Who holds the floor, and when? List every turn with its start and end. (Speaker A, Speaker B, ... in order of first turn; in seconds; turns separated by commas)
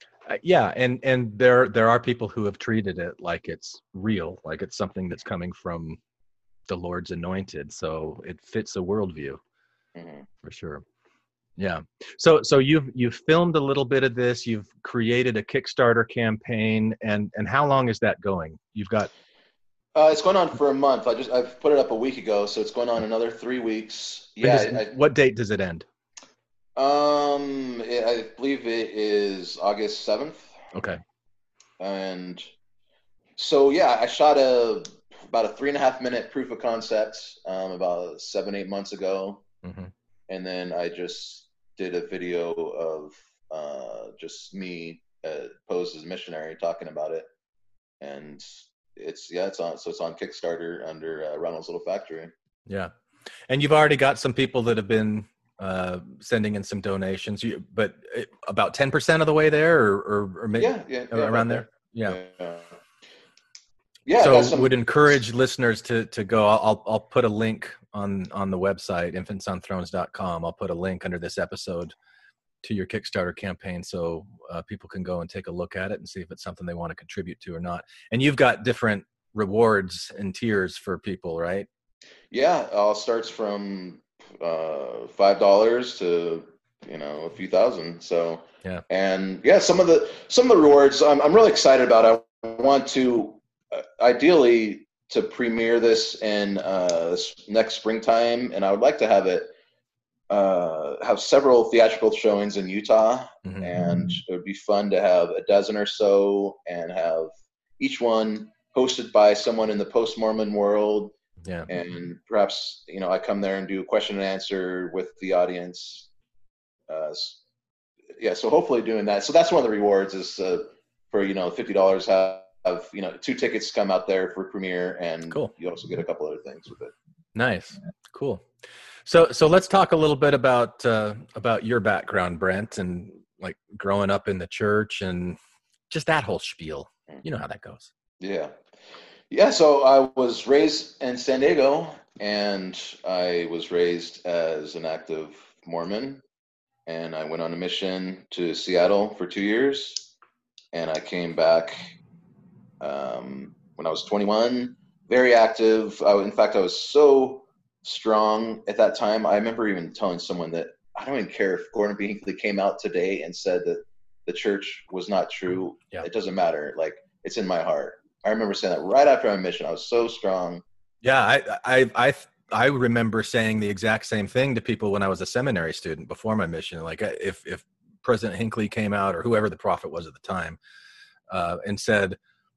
Speaker A: 0.3-6.0, Speaker A: 6.7-9.4, Speaker B: 9.9-10.2, Speaker A: 10.4-10.8, Speaker A: 11.6-19.1, Speaker B: 19.9-24.9, Speaker A: 24.4-25.9, Speaker B: 26.8-30.5, Speaker A: 30.7-31.0, Speaker B: 31.8-32.5, Speaker B: 33.4-39.4, Speaker A: 39.6-39.9, Speaker B: 40.3-47.3, Speaker B: 48.0-52.3, Speaker A: 52.7-52.9, Speaker A: 53.5-62.2, Speaker B: 60.6-62.8, Speaker B: 64.0-64.7, Speaker A: 64.2-71.9, Speaker A: 72.6-81.7, Speaker B: 82.3-99.5, Speaker B: 100.3-111.1, Speaker A: 103.4-103.7, Speaker A: 111.4-111.7, Speaker B: 111.7-116.1, Speaker B: 116.9-117.4, Speaker B: 118.2-126.9, Speaker A: 127.3-128.4, Speaker A: 129.1-135.4, Speaker A: 135.9-137.9, Speaker B: 138.2-138.5, Speaker B: 139.3-146.2, Speaker B: 146.8-150.1, Speaker B: 150.7-151.8, Speaker B: 152.8-170.6, Speaker A: 171.0-180.6, Speaker A: 181.3-182.2